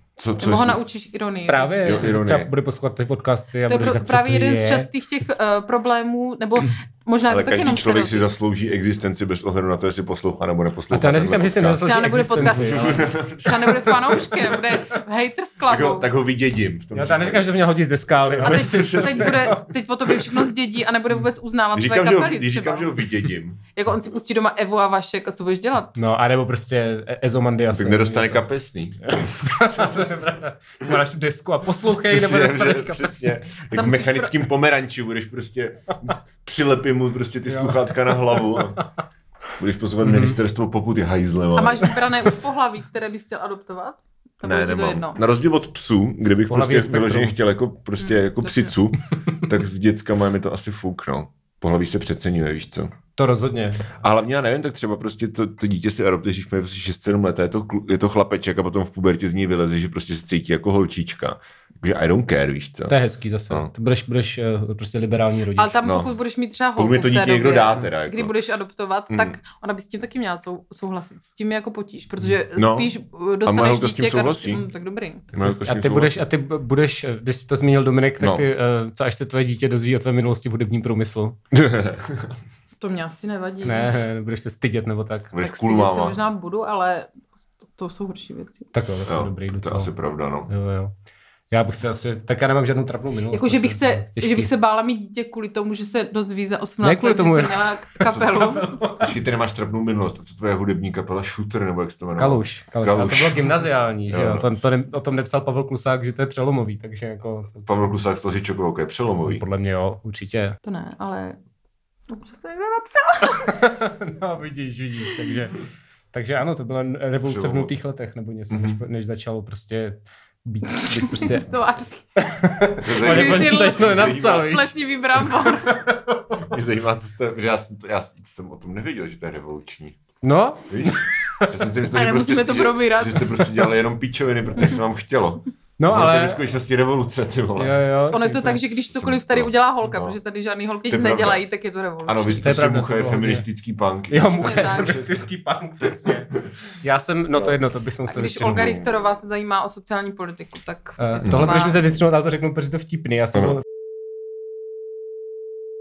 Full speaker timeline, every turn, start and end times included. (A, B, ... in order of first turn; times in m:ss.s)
0:00.2-0:00.8 A
0:00.4-0:02.0 B
0:01.5-0:04.9 C
0:01.8-0:02.5 A
0:03.7-0:08.2 B
0:07.3-0:14.8 A
0:10.9-0:13.1 C
0:11.8-0:16.1 B
0:15.7-0:17.5 A
0:16.9-0:20.4 C
0:18.3-0:19.6 A
0:18.4-0:22.9 B
0:21.7-0:23.6 A
0:23.8-0:26.0 B
0:26.0-0:28.4 C
0:27.7-0:30.4 A
0:29.1-0:33.4 C
0:32.0-0:38.8 A
0:33.7-0:34.4 B
0:37.5-0:38.8 C
0:39.6-0:42.0 A
0:40.0-0:40.4 C
0:41.6-0:45.2 B
0:44.4-0:52.9 A
0:46.5-0:47.4 C
0:48.0-0:48.7 B
0:53.2-0:53.9 C
0:53.9-1:02.9 A
1:02.9-1:05.8 C
1:05.6-1:15.3 B
1:05.8-1:06.1 A
1:06.8-1:08.3 A
1:09.1-1:09.4 A
1:12.5-1:12.9 A
1:13.4-1:14.6 A
1:15.3-1:16.2 A
1:15.3-1:21.4 C
1:18.2-1:18.4 A
1:21.5-1:22.3 A
1:22.8-1:23.9 B
1:23.6-1:25.3 C
1:25.3-1:26.2 A
1:25.4-1:27.1 B
1:27.8-1:28.7 B
1:28.7-1:29.9 C
1:29.0-1:30.5 A
1:30.5-1:30.9 C
1:31.5-1:34.5 C
1:33.3-1:38.8 B
1:36.8-1:39.1 C
1:39.0-1:44.4 A
1:42.2-1:47.7 C
1:47.6-1:49.4 A
1:49.2-1:50.6 C
1:50.6-1:51.4 B
1:52.1-1:53.6 B
1:53.2-1:55.6 C
1:56.1-2:01.5 C
1:57.2-1:57.7 A
1:58.5-1:58.8 A
2:00.7-2:02.0 B
2:02.2-2:04.7 C
2:02.8-2:04.6 A
2:02.9-2:05.8 B
2:05.4-2:06.5 C
2:06.4-2:10.0 A
2:10.2-2:11.5 C
2:10.7-2:17.8 A
2:11.9-2:13.5 B
2:15.8-2:16.4 C
2:17.6-2:18.6 C
2:18.1-2:22.4 B
2:18.9-2:20.2 A
2:20.9-2:21.4 A
2:22.0-2:25.1 A
2:22.4-2:23.4 C
2:24.1-2:28.8 C
2:24.4-2:25.1 B
2:28.1-2:31.8 B
2:31.0-2:33.6 C
2:31.2-2:31.5 A